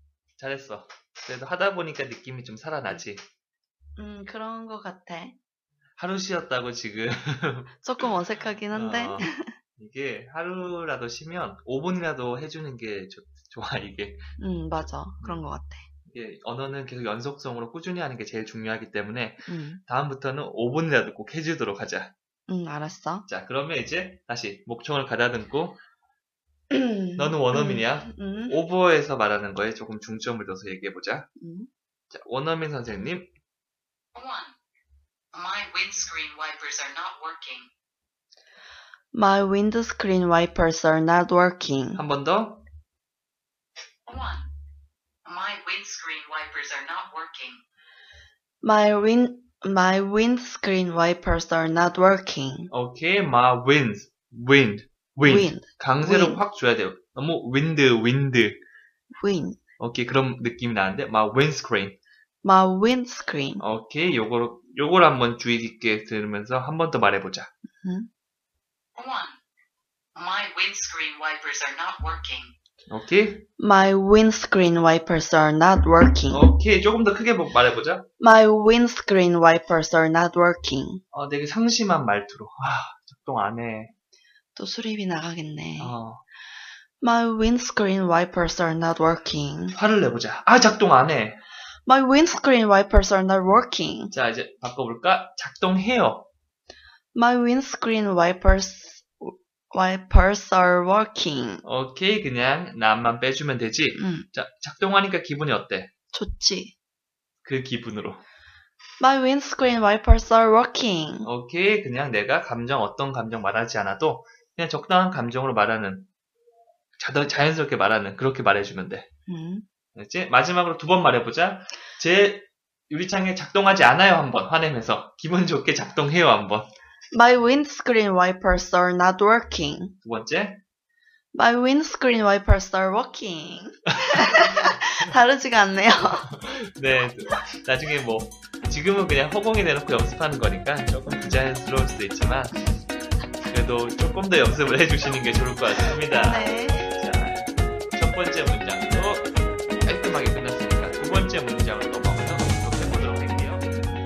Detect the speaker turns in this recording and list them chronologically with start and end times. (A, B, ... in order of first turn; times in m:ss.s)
0:00.4-0:03.2 A
0:04.0-0:05.4 B
0:06.0-0:07.8 A
0:07.8-0:09.5 B
0:08.7-0:14.2 A
0:14.4-0:15.9 B
0:16.1-0:22.1 A
0:19.4-0:19.8 B
0:22.5-0:23.3 B
0:23.3-0:25.8 A
0:26.7-0:28.6 B
0:27.2-0:31.3 A
0:31.4-0:31.7 B
0:32.1-0:33.3 A
0:34.1-0:34.5 C
0:35.3-0:37.7 C
0:39.1-0:42.0 B
0:42.0-0:42.6 A
0:44.1-0:44.5 C
0:45.2-0:47.6 C
0:48.6-0:52.7 B
0:52.7-0:58.6 A
0:55.2-0:56.4 B
0:59.2-0:59.6 B
0:59.8-1:02.0 A
1:02.4-1:03.6 B
1:03.6-1:07.5 A
1:07.8-1:08.1 B
1:09.0-1:09.4 C
1:10.1-1:12.5 C
1:12.9-1:13.4 A
1:13.6-1:16.5 B
1:16.3-1:18.0 A
1:18.2-1:21.0 B
1:21.1-1:23.9 A
1:24.6-1:25.9 B
1:25.8-1:26.2 A
1:27.0-1:29.8 B
1:29.7-1:31.4 A
1:31.8-1:34.1 B
1:34.1-1:36.3 A
1:37.1-1:41.6 B
1:41.6-1:45.9 A
1:44.0-1:44.3 B
1:46.1-1:46.7 B
1:47.4-1:48.2 A
1:49.0-1:51.3 B
1:51.2-1:56.1 A
1:57.0-1:59.1 A
1:59.3-1:59.6 B
1:59.9-2:06.7 A
2:07.1-2:09.9 B
2:10.0-2:10.6 A
2:11.3-2:16.3 B
2:13.9-2:14.8 A
2:16.3-2:22.5 A
2:23.5-2:33.7 A
2:26.2-2:26.9 B